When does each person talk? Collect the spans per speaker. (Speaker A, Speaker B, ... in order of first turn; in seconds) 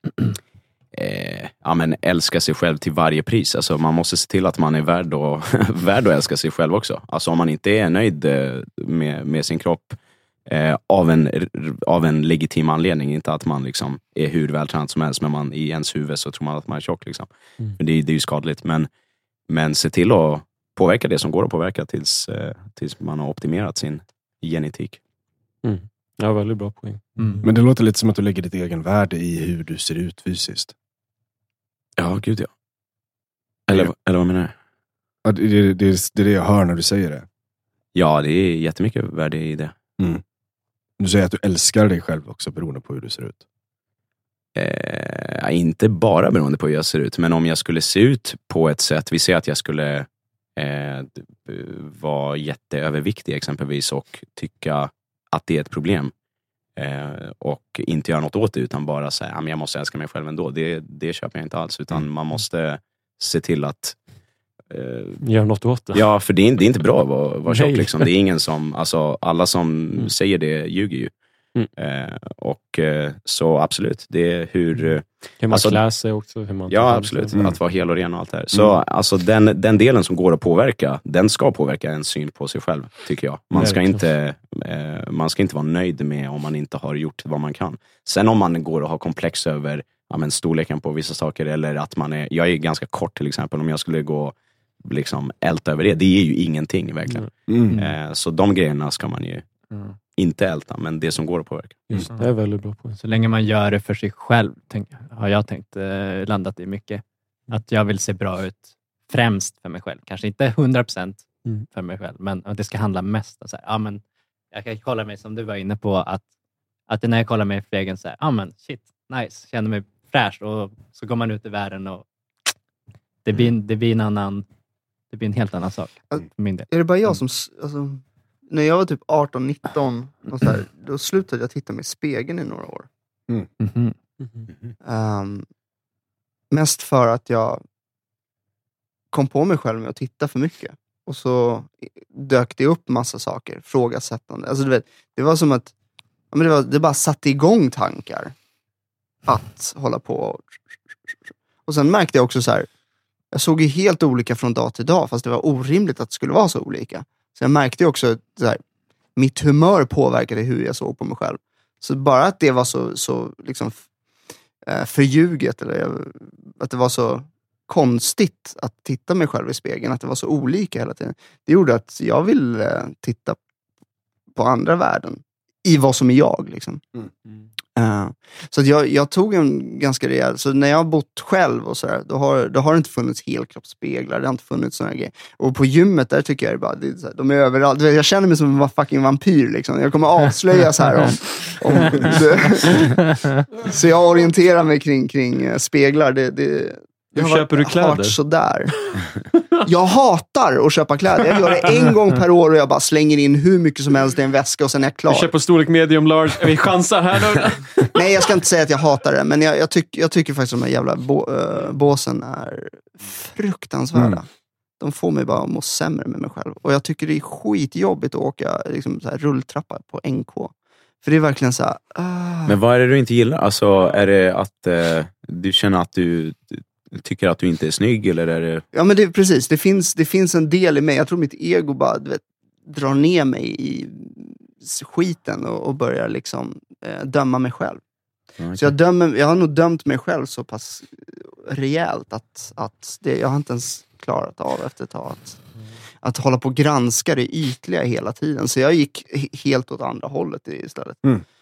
Speaker A: 0.9-18.9, 19.5-25.0, 32.0-32.5, 33.7-34.5, 37.9-39.7, 44.5-56.1, 56.8-64.0, 64.7-65.2, 65.9-71.1, 71.8-75.8, 76.7-99.5, 100.1-102.1, 222.4-228.6, 238.4-238.7
Speaker B: 25.6-27.4, 65.2-66.0, 67.5-68.1, 75.4-77.3, 83.6-84.0, 101.9-103.0, 134.2-134.5, 197.1-198.2, 198.7-199.6, 205.1-208.0
Speaker C: 27.2-27.4, 97.7-97.9, 99.7-100.0, 103.0-116.2, 116.9-122.0, 123.2-124.5, 125.1-126.7, 133.6-133.9
Speaker D: 27.4-30.7, 35.2-37.2, 41.0-43.4, 97.5-97.7, 213.9-214.2
Speaker E: 126.1-132.9, 134.8-135.4, 136.5-137.6, 139.1-145.7, 146.3-148.3, 149.2-152.7, 153.3-158.6, 159.2-163.8, 164.7-173.4, 174.3-176.8, 177.8-198.8, 199.6-205.3, 207.9-214.3, 214.8-222.6, 228.7-237.8, 238.6-245.4, 246.0-251.0